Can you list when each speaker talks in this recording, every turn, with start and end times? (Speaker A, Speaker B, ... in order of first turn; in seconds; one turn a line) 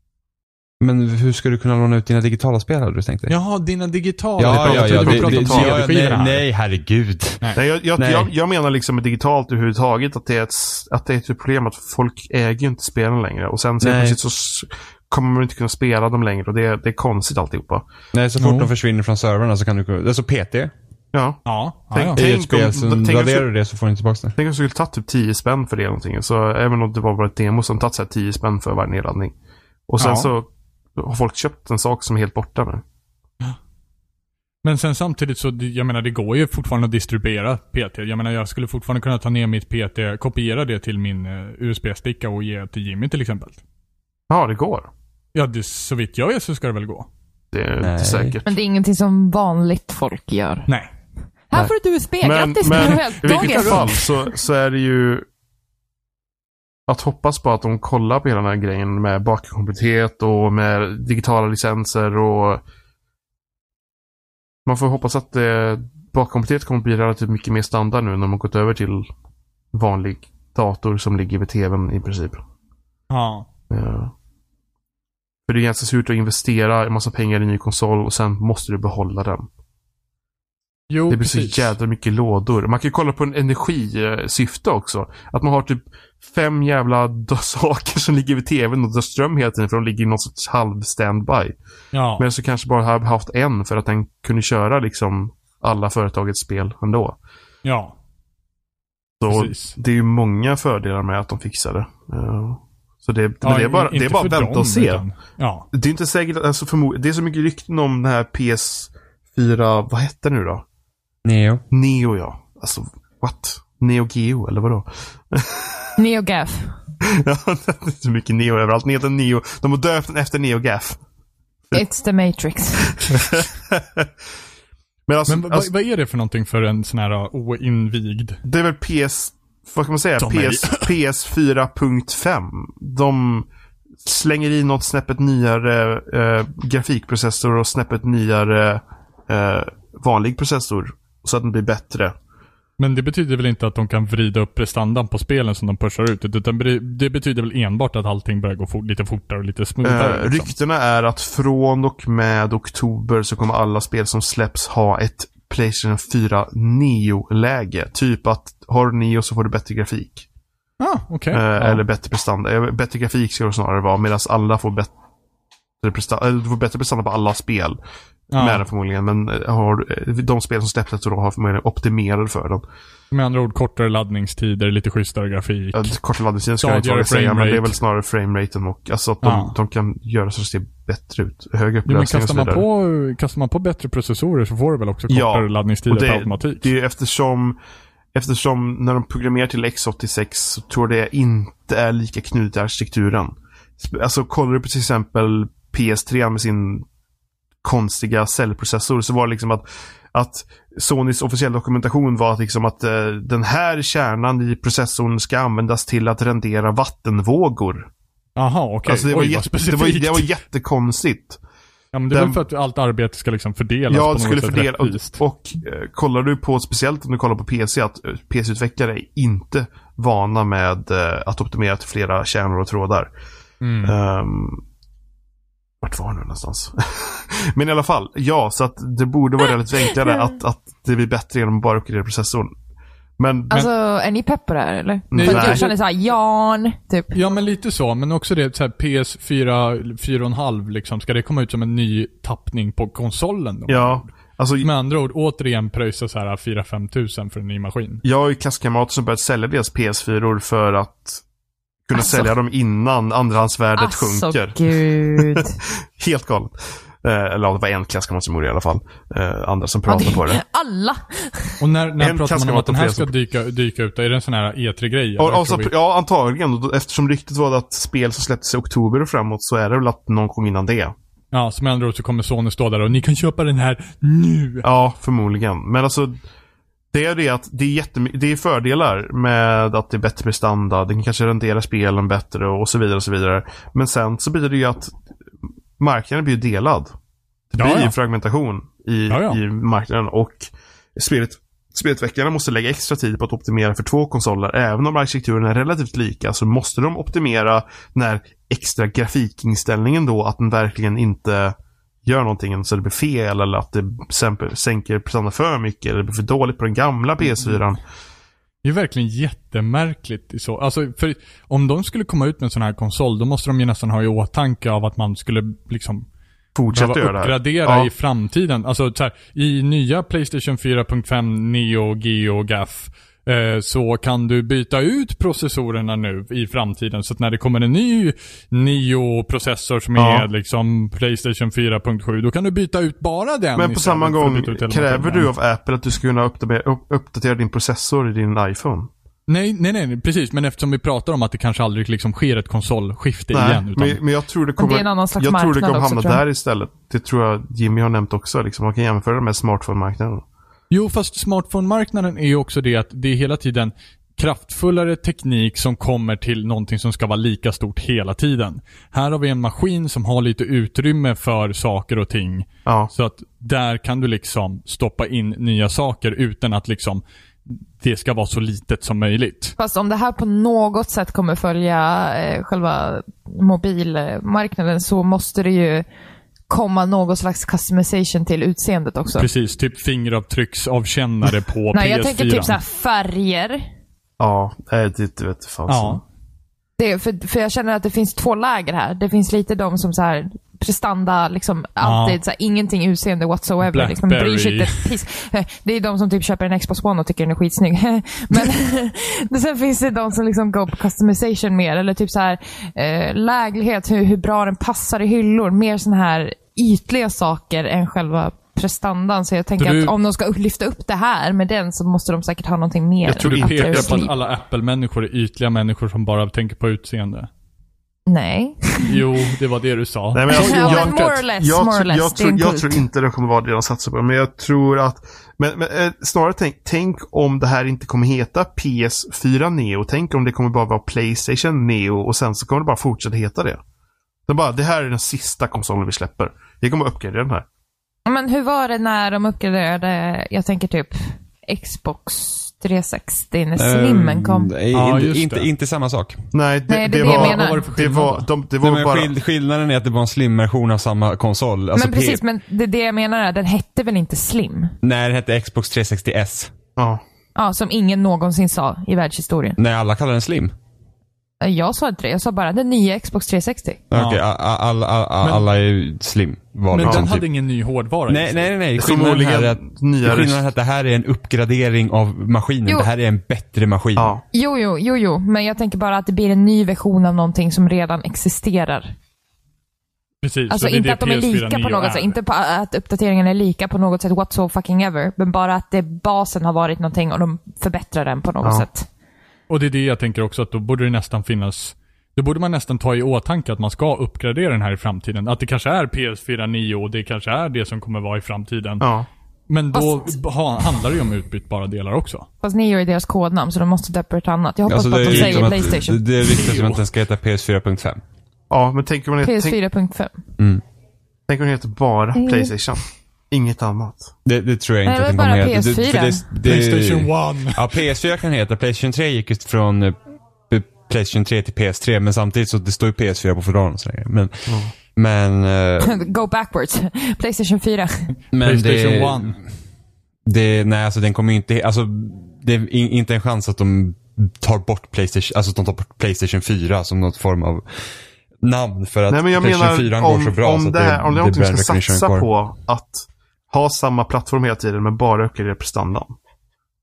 Speaker A: 0.8-3.3
Speaker B: 3.3-6.4
Speaker A: 4.4-7.4
Speaker C: 4.5-5.8
Speaker C: 7.5-17.8
Speaker A: 8.0-8.3
Speaker A: 13.8-14.2
Speaker A: 18.1-20.7
Speaker B: 18.4-18.7
Speaker C: 21.1-23.5
Speaker B: 21.4-22.2
Speaker A: 22.1-24.4
Speaker C: 24.4-29.3
Speaker C: 29.9-30.4
Speaker B: 30.0-30.3
Speaker C: 31.0-32.8
Speaker B: 34.6-43.6
Speaker C: 44.3-44.9
Speaker B: 45.3-47.1
Speaker C: 47.5-48.5
Speaker A: 47.8-48.4
Speaker D: 48.5-50.7
Speaker D: 51.5-54.3
Speaker C: 52.2-55.2
Speaker B: 52.8-53.9
Speaker C: 56.9-62.6
Speaker C: 64.7-69.1
Speaker C: 69.7-72.4
Speaker B: 73.1-73.5
Speaker C: 73.7-74.1
Speaker C: 75.5-79.5
Speaker B: 80.9-81.7
Speaker C: 81.1-91.5
Speaker B: 91.9-92.2
Speaker C: 92.2-97.2
Speaker B: 97.6-97.9
Speaker C: 99.2-105.0
Speaker B: 99.3-99.8
Speaker B: 103.4-105.7
Speaker C: 105.7-110.6
Speaker A: 111.2-111.6
Speaker C: 111.7-116.0
Speaker D: 116.0-116.7
Speaker C: 117.0-121.0
Speaker D: 121.7-123.0
Speaker C: 122.9-124.1
Speaker C: 125.1-125.7
Speaker B: 125.3-128.4
Speaker C: 128.4-133.5
Speaker B: 130.2-130.9
Speaker C: 134.0-142.1
Speaker B: 142.8-150.5
Speaker C: 149.8-160.2
Speaker B: 160.8-161.8
Speaker C: 161.3-164.9
Speaker C: 165.8-167.8
Speaker B: 168.3-168.6
Speaker C: 168.3-172.6
Speaker B: 173.1-175.9
Speaker C: 175.7-182.6
Speaker B: 176.6-177.8
Speaker B: 179.2-179.5
Speaker B: 181.8-186.7
Speaker C: 185.1-187.6
Speaker C: 188.1-196.8
Speaker C: 197.6-207.9
Speaker B: 208.4-210.3
Speaker C: 208.8-211.4
Speaker B: 211.9-215.2
Speaker C: 212.1-212.4
Speaker C: 213.9-223.1
Speaker B: 223.6-223.9
Speaker C: 223.8-224.6
Speaker C: 225.8-232.5
Speaker C: 233.2-233.7
Speaker D: 233.5-237.1
Speaker C: 235.1-235.7
Speaker B: 235.1-235.8
Speaker B: 237.1-244.1
Speaker C: 243.7-244.7
Speaker B: 244.6-248.0
Speaker C: 248.0-251.2
Speaker C: 251.8-260.4
Speaker D: 251.9-252.3
Speaker D: 253.8-255.6
Speaker D: 259.9-261.6
Speaker B: 261.6-265.7
Speaker C: 262.0-263.1
Speaker C: 265.2-270.9
Speaker B: 271.3-274.7
Speaker C: 274.6-276.2
Speaker C: 276.9-284.9
Speaker C: 285.8-286.9
Speaker C: 287.5-307.8
Speaker B: 287.6-287.9
Speaker B: 289.1-289.4
Speaker B: 307.2-307.7
Speaker B: 308.6-316.1
Speaker C: 316.5-317.9
Speaker B: 316.7-335.3
Speaker C: 330.0-330.3
Speaker C: 333.6-338.9
Speaker B: 339.3-344.0
Speaker C: 343.3-350.2
Speaker D: 344.6-346.2
Speaker B: 350.7-369.6
Speaker D: 369.6-375.9
Speaker D: 376.5-379.3
Speaker B: 379.1-382.5
Speaker D: 381.7-383.7
Speaker C: 384.2-386.0
Speaker B: 385.7-386.0
Speaker D: 386.8-414.1
Speaker B: 391.8-392.2
Speaker B: 393.6-394.9
Speaker B: 409.6-409.9
Speaker B: 413.1-417.3
Speaker C: 413.1-414.0
Speaker D: 418.1-418.9
Speaker B: 418.8-421.0
Speaker C: 420.1-433.6
Speaker D: 420.3-422.8
Speaker C: 434.3-437.4
Speaker D: 438.1-444.5
Speaker A: 443.6-446.2
Speaker B: 444.7-445.5
Speaker C: 446.3-449.1
Speaker D: 446.7-447.7
Speaker B: 447.0-448.3
Speaker A: 448.6-452.2
Speaker D: 451.7-454.7
Speaker A: 454.8-456.5
Speaker C: 456.8-457.0
Speaker D: 457.4-459.6
Speaker A: 459.6-460.5
Speaker D: 461.4-463.8
Speaker A: 463.9-467.2
Speaker B: 463.9-464.2
Speaker B: 466.7-468.5
Speaker C: 466.8-467.1
Speaker A: 468.1-474.1
Speaker C: 468.8-470.4
Speaker C: 474.0-474.2
Speaker D: 474.3-478.9
Speaker B: 480.2-482.1
Speaker D: 480.5-488.9
Speaker B: 489.5-498.8
Speaker C: 498.8-499.1
Speaker B: 499.5-502.3
Speaker D: 499.7-500.1
Speaker D: 502.4-506.1
Speaker A: 504.7-508.0
Speaker B: 505.0-505.6
Speaker B: 506.3-506.8
Speaker C: 508.5-509.6
Speaker D: 509.2-510.1
Speaker C: 511.3-514.1
Speaker D: 512.1-512.5
Speaker A: 514.2-520.0
Speaker D: 514.9-516.2
Speaker B: 516.4-517.6
Speaker A: 520.5-526.1
Speaker C: 524.5-524.7
Speaker D: 525.8-528.1
Speaker A: 528.3-529.5
Speaker B: 528.4-529.4
Speaker A: 530.2-537.6
Speaker A: 538.4-542.3
Speaker C: 539.1-546.1